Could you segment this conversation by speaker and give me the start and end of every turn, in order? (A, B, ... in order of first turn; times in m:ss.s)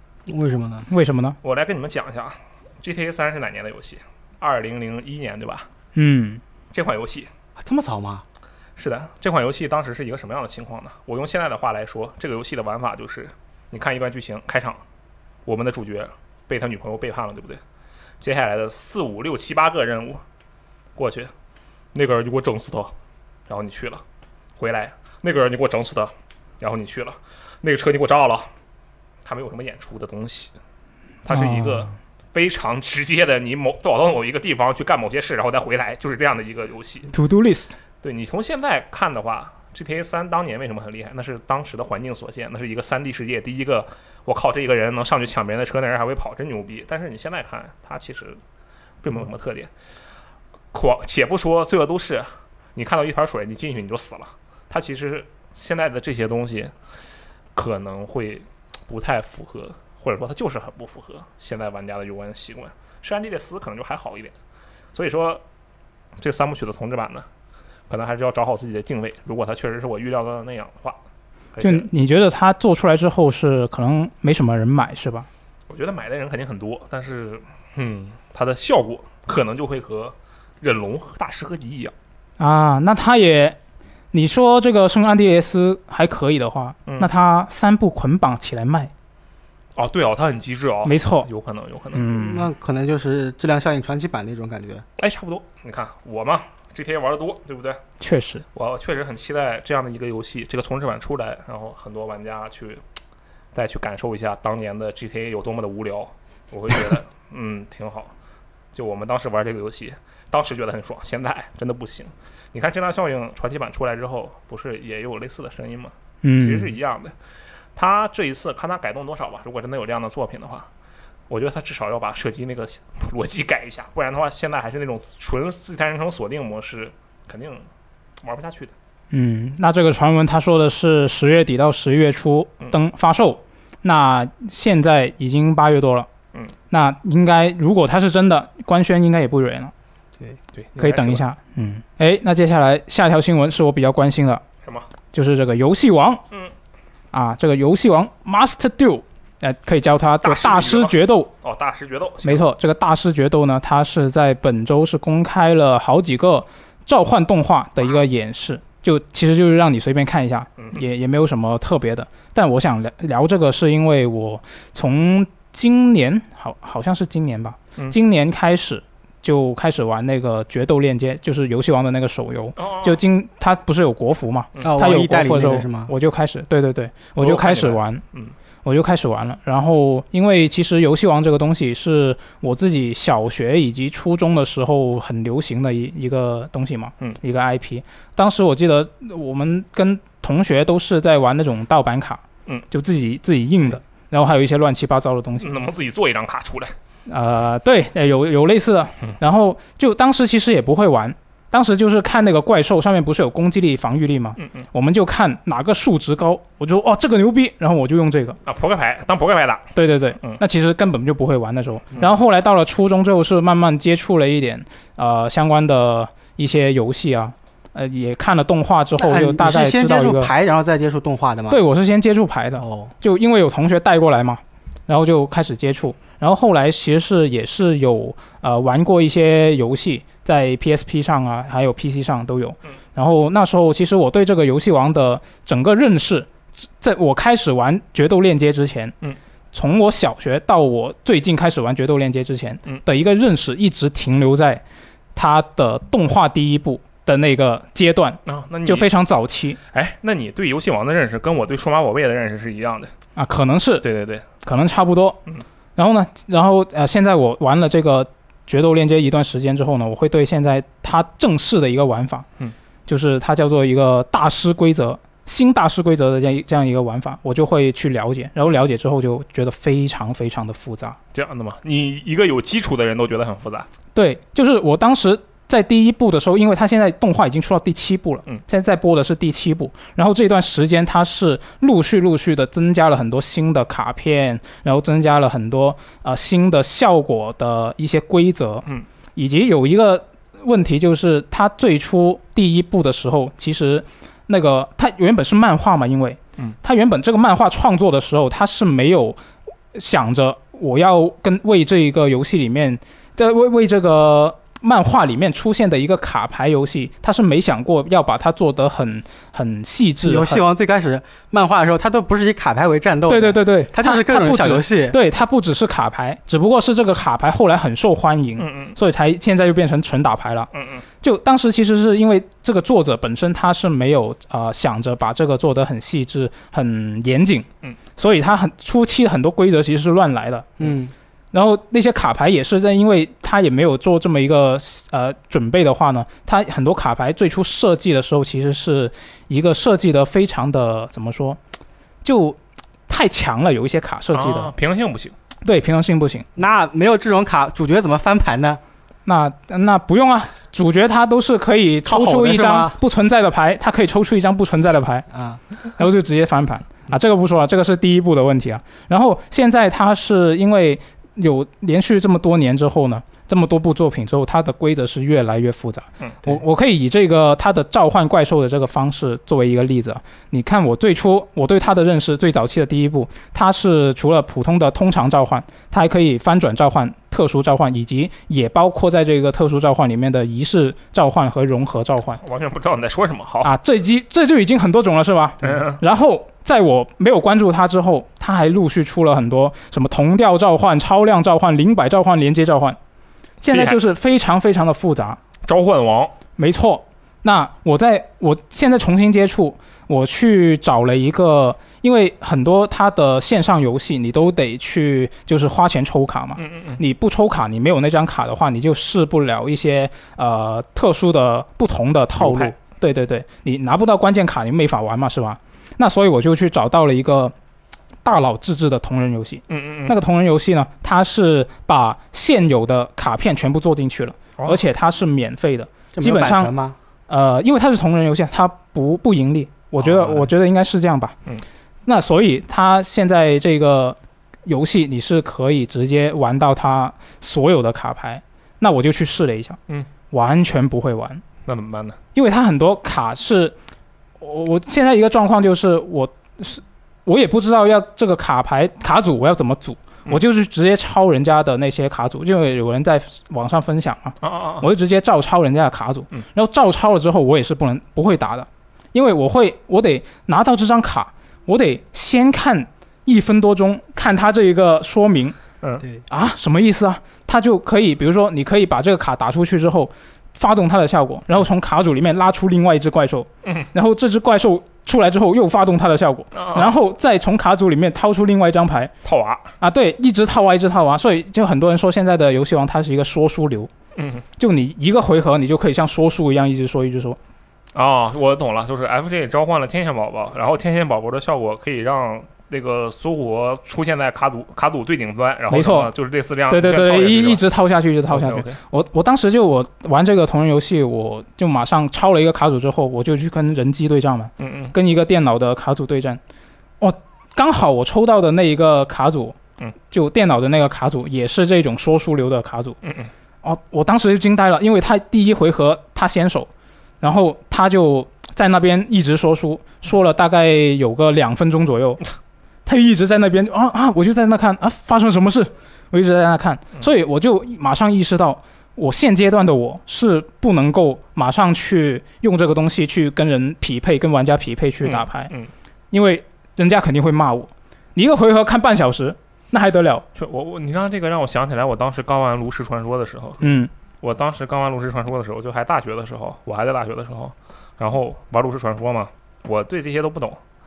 0:00.3-0:00.9 A
0:00.9-0:01.4 B
0:01.4-0:05.7 C
0:06.0-0:06.4 B
0:06.7-0:07.3 C
0:07.6-0:08.2 A
0:08.8-0:14.8 C
0:15.5-0:17.6 C
0:18.2-0:20.2 C
0:21.0-0:21.3 C
0:21.9-0:22.9 C
0:23.5-0:24.0 C
0:24.6-0:28.5 C
0:29.2-0:30.5 C
0:31.2-0:37.1 C
0:31.3-0:31.9 B
0:37.1-0:37.7 B
0:38.0-0:48.4 C
0:49.0-0:49.7 C
0:50.7-0:56.7 C
0:57.6-1:04.3 C
1:04.9-1:05.4 C
1:06.2-1:07.3 C
1:07.9-1:11.0 C
1:11.5-1:11.9 C
1:11.6-1:15.3 B
1:15.7-1:21.9 C
1:22.4-1:23.6 B
1:24.1-1:28.9 B
1:29.8-1:32.1 C
1:30.8-1:31.3 B
1:31.9-1:32.5 B
1:32.1-1:34.8 A
1:35.0-1:37.8 C
1:38.0-1:38.4 B
1:38.5-1:42.8 C
1:43.5-1:48.1 C
1:48.7-1:57.1 C
1:56.2-1:56.7 B
1:57.8-2:00.7 C
2:01.3-2:07.6 C
2:08.2-2:08.7 C
2:09.1-2:16.1 B
2:16.7-2:19.7 B
2:20.6-2:21.2 C
2:20.8-2:24.4 B
2:25.1-2:26.2 B
2:27.1-2:31.3 B
2:30.2-2:32.5 C
2:32.2-2:58.0 B
2:40.6-2:40.8 C
2:52.6-2:53.0 C
2:54.6-2:55.9 A
2:57.2-2:58.3 C
2:58.6-3:15.6 B
3:15.4-3:16.7 C
3:17.1-3:28.4 B
3:28.5-3:30.4 C
3:29.8-3:40.3 B
3:39.0-3:41.6 A
3:41.5-3:58.9 B
3:42.6-3:42.9 A
3:59.5-4:04.6 B
4:05.2-4:09.6 B
4:08.3-4:08.9 C
4:09.7-4:12.9 C
4:13.2-4:13.8 B
4:13.8-4:14.3 C
4:14.4-4:15.2 B
4:15.8-4:22.3 B
4:22.9-4:31.0 B
4:31.1-4:33.7 C
4:34.0-4:48.6 B
4:49.2-4:59.2 B
4:59.7-5:10.4 B
5:10.0-5:15.0 A
5:13.1-5:20.5 B
5:18.4-5:18.8 C
5:20.5-5:20.8 C
5:21.0-5:30.7 B
5:30.6-5:30.9 A
5:31.3-5:41.4 B
5:42.0-5:44.5 B
5:44.1-5:45.1 C
5:45.4-5:46.3 B
5:46.4-5:48.6 A
5:49.0-5:55.1 B
5:51.8-5:52.8 A
5:55.1-5:55.4 A
5:55.8-6:22.2 B
6:22.2-6:23.5 C
6:23.4-6:32.8 B
6:25.4-6:25.8 C
6:33.4-6:35.2 B
6:33.5-6:33.8 C
6:35.4-6:36.1 C
6:36.4-6:57.3 B
6:46.4-6:46.8 C
6:52.2-6:52.5 C
6:58.0-7:06.5 B
6:59.5-7:00.0 C
7:05.9-7:06.8 A
7:07.1-7:11.2 B
7:09.8-7:10.3 A
7:11.9-7:19.6 B
7:20.1-7:21.2 B
7:21.5-7:22.0 C
7:22.1-7:23.6 B
7:24.2-7:45.4 B
7:34.2-7:34.7 C
7:46.1-7:58.9 B
7:56.4-7:56.8 C
7:59.0-7:59.5 C
7:59.6-8:03.7 B
8:04.0-8:04.2 C
8:04.4-8:07.2 B
8:07.8-8:17.4 C
8:15.5-8:15.9 B
8:16.5-8:26.2 B
8:18.1-8:18.6 C
8:24.4-8:24.8 C
8:26.8-8:29.4 B
8:29.9-8:32.8 B
8:32.8-8:33.1 C
8:33.4-8:36.5 B
8:37.0-8:42.0 B
8:42.7-8:55.3 B
8:54.8-8:55.5 C
8:55.9-9:00.0 B
9:00.2-9:03.4 C
9:03.4-9:03.7 B
9:04.0-9:10.4 C